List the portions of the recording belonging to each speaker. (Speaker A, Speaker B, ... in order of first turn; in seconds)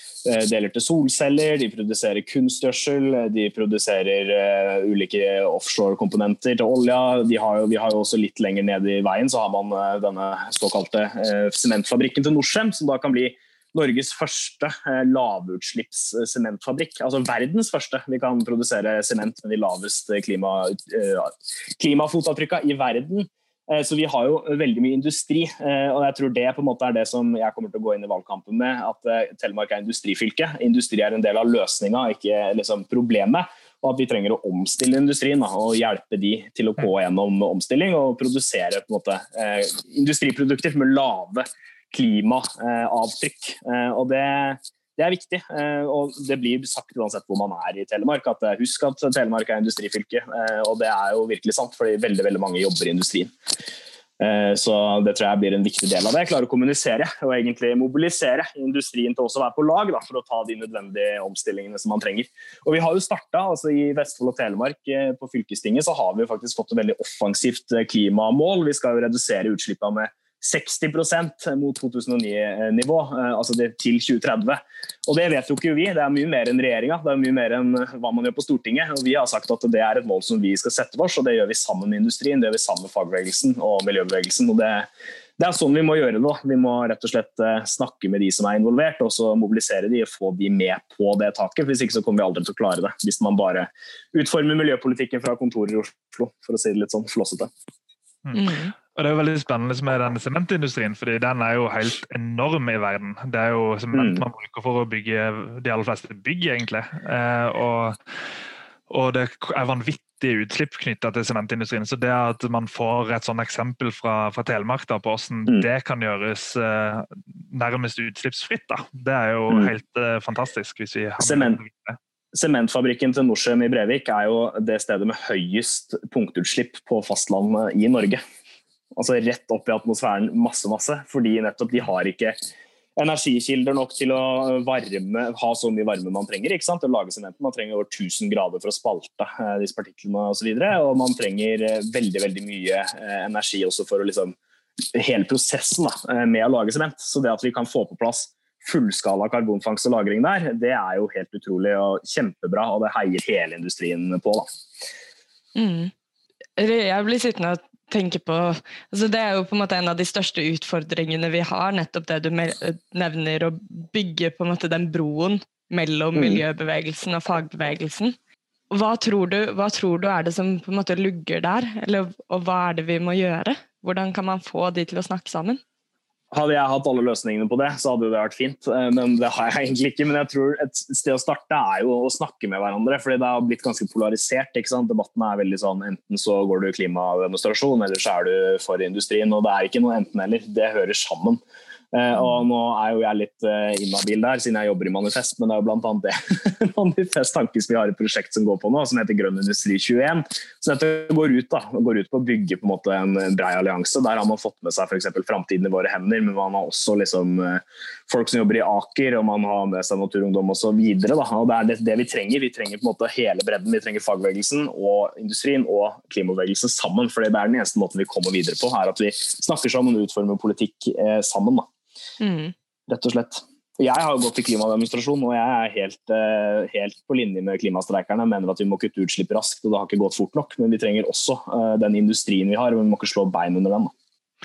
Speaker A: 0.2-53.3, 54.2-97.5, 103.9-104.2, 121.2-121.6, 122.3-128.2, 128.9-132.4, 133.0-144.3, 144.9-154.5, 166.1-166.4, 176.3-191.4, 191.9-221.7, 222.9-233.9
Speaker B: 98.2-108.0, 108.9-122.0
Speaker C: 98.3-98.7, 155.5-155.9, 156.6-168.2, 168.7-175.6, 222.2-222.5